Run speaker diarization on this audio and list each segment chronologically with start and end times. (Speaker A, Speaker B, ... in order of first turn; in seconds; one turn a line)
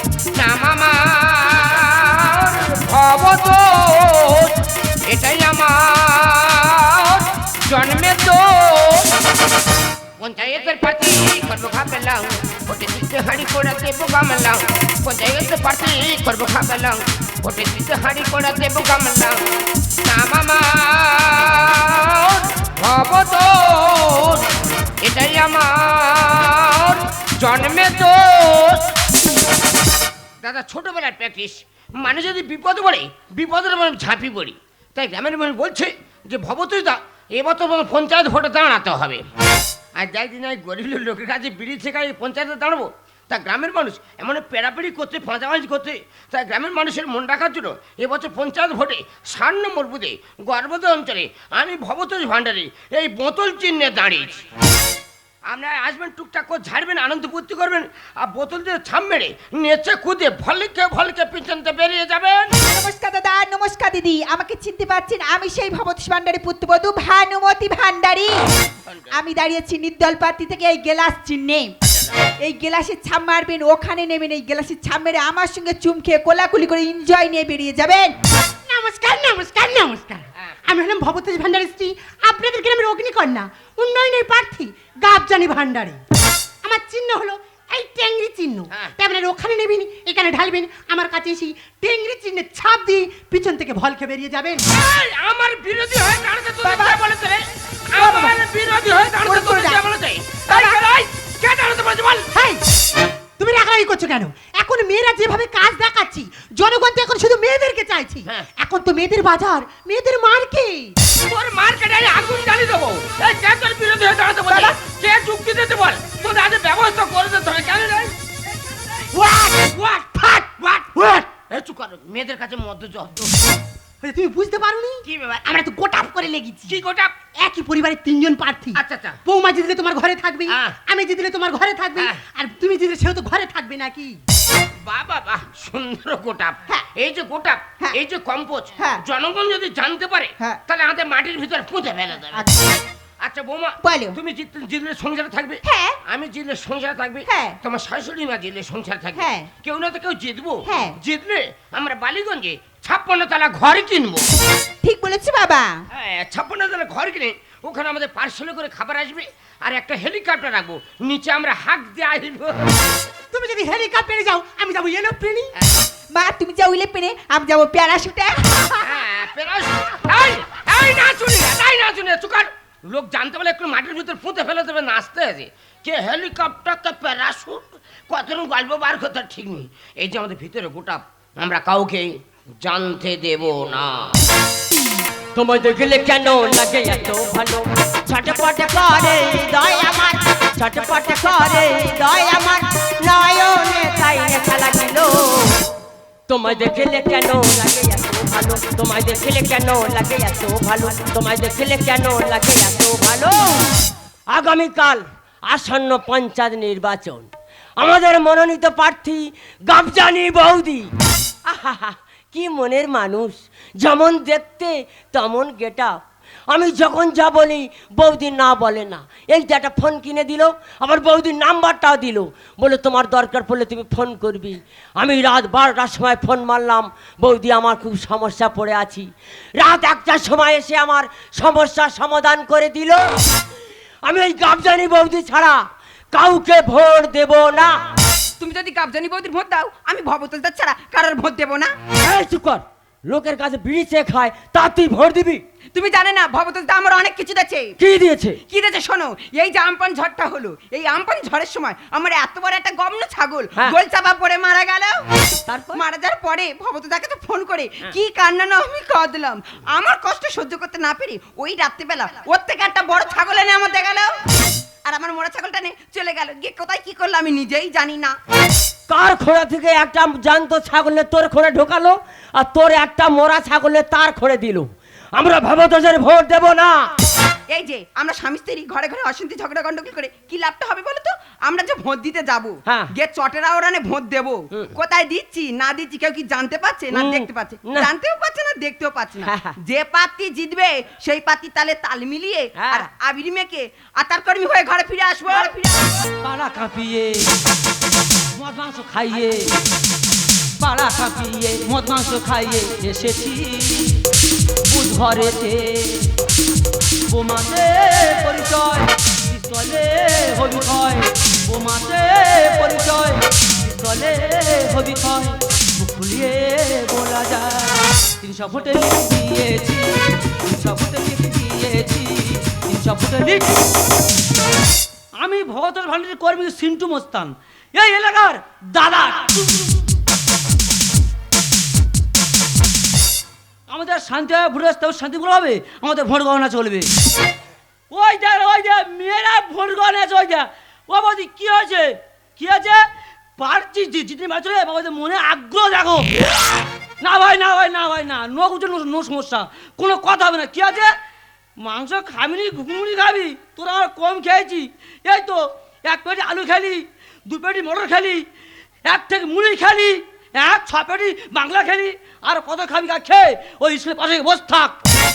Speaker A: 0.3-4.5
Speaker A: 5.0-9.1
Speaker A: 10.2-19.4
Speaker A: 20.0-24.5
Speaker A: 25.0-28.9
Speaker A: 30.4-39.2
Speaker A: 40.0-54.4
Speaker A: 55.5-62.5
Speaker B: 62.6-68.3
Speaker A: 68.9-69.1
Speaker B: 69.1-71.7
Speaker B: 72.4-78.1
Speaker C: 78.7-86.0
Speaker C: 86.6-94.6
Speaker A: 94.7-102.3
Speaker C: 96.6-96.9
Speaker B: 98.0-98.3
Speaker B: 99.2-99.8
Speaker B: 100.5-100.8
Speaker C: 102.3-102.6
Speaker C: 103.4-110.9
Speaker A: 111.3-118.1
Speaker B: 114.5-114.7
Speaker C: 119.1-119.6
Speaker A: 119.6-120.9
Speaker C: 120.9-121.3
Speaker A: 121.5-123.3
Speaker C: 124.0-126.8
Speaker A: 125.1-125.5
Speaker A: 126.7-127.2
Speaker C: 127.4-134.2
Speaker A: 128.7-129.2
Speaker A: 130.5-130.8
Speaker A: 134.8-142.5
Speaker A: 143.2-154.3
Speaker B: 143.8-144.2
Speaker B: 145.7-145.9
Speaker B: 147.3-147.6
Speaker B: 149.2-149.5
Speaker B: 150.7-150.9
Speaker B: 154.8-155.7
Speaker A: 155.9-162.7
Speaker C: 163.3-165.5
Speaker B: 166.1-168.8
Speaker A: 168.8-184.1
Speaker D: 185.3-195.6
Speaker D: 196.3-203.7
Speaker D: 204.3-207.3
Speaker D: 207.8-210.9
Speaker D: 211.5-215.9
Speaker D: 216.5-233.0
Speaker D: 234.0-237.7
Speaker E: 238.4-241.7
Speaker D: 242.0-245.4
Speaker E: 245.7-247.7
Speaker D: 247.8-248.4
Speaker E: 248.5-255.0
Speaker D: 255.5-255.8
Speaker E: 255.7-264.2
Speaker E: 264.8-268.1
Speaker D: 268.9-276.8
Speaker E: 277.5-295.8
Speaker D: 282.6-282.9
Speaker D: 286.9-287.9
Speaker D: 289.2-289.5
Speaker D: 292.6-292.9
Speaker F: 296.2-297.2
Speaker F: 298.4-299.5
Speaker F: 300.6-303.9
Speaker F: 304.7-306.1
Speaker F: 307.1-319.9
Speaker F: 320.4-323.5
Speaker F: 325.1-329.8
Speaker F: 333.7-336.9
Speaker F: 337.9-342.8
Speaker F: 343.4-346.1
Speaker F: 347.0-350.9
Speaker F: 351.6-358.2
Speaker F: 358.8-364.8